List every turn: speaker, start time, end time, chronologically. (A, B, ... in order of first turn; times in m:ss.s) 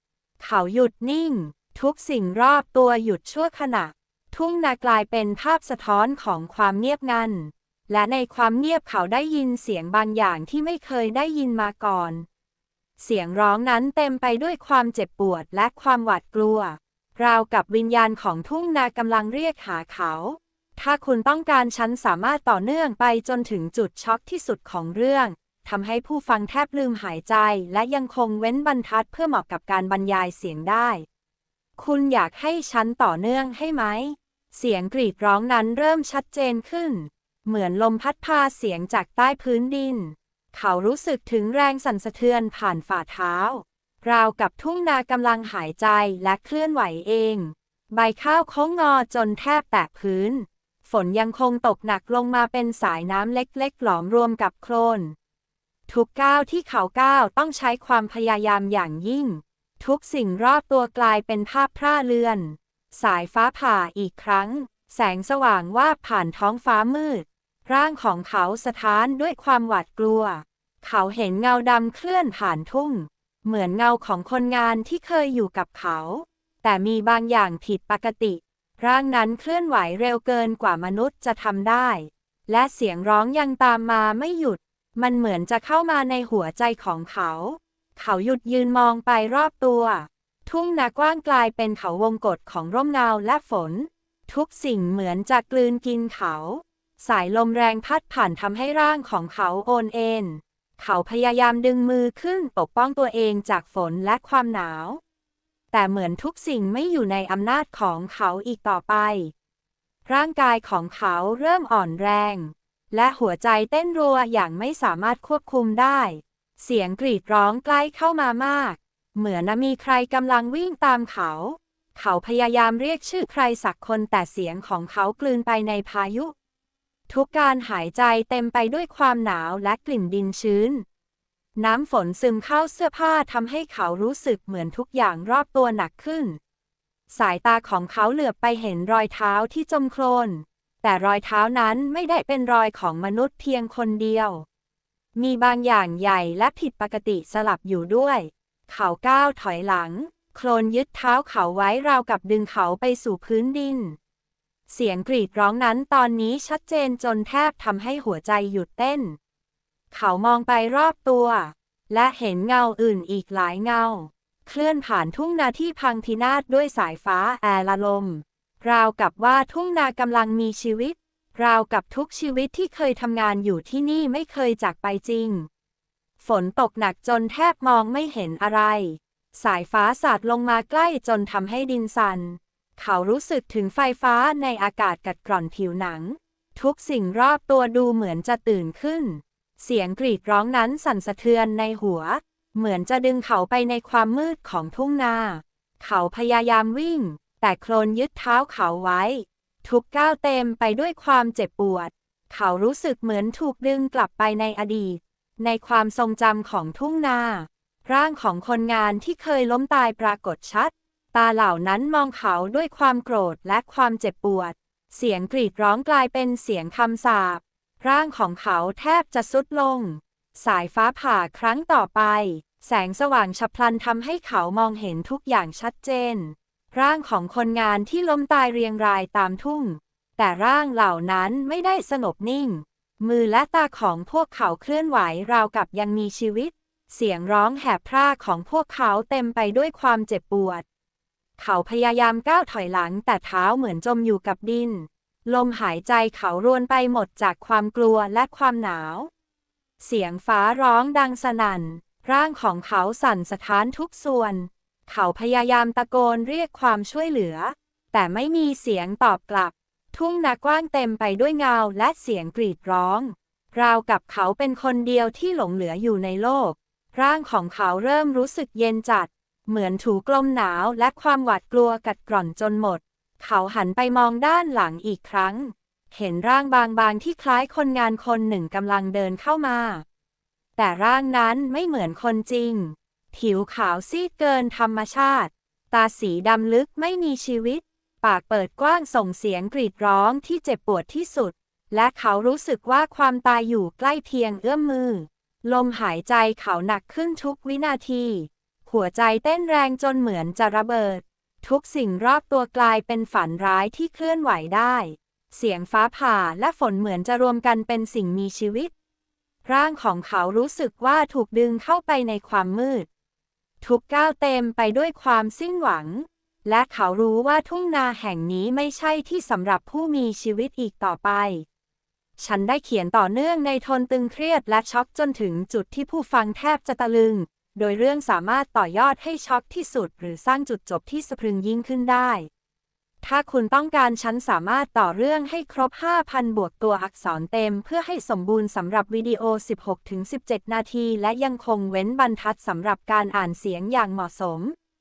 0:00.4-0:12.2 A
0:13.0-0:31.0 A
0:31.8-0:55.1 A
0:55.9-1:45.0 A
1:45.7-1:49.3 A
1:50.0-2:06.3 A
2:07.1-2:10.8 A
2:11.6-2:16.4 A
2:17.1-2:24.4 A
2:25.2-2:34.0 A
2:34.7-2:39.2 A
2:39.9-2:55.5 A
2:56.2-4:00.6 A
4:01.4-4:09.1 A
4:09.8-4:39.8 A
4:40.6-5:08.7 A
5:09.4-5:12.9 A
5:13.6-5:21.4 A
5:22.2-5:32.3 A
5:33.0-5:44.5 A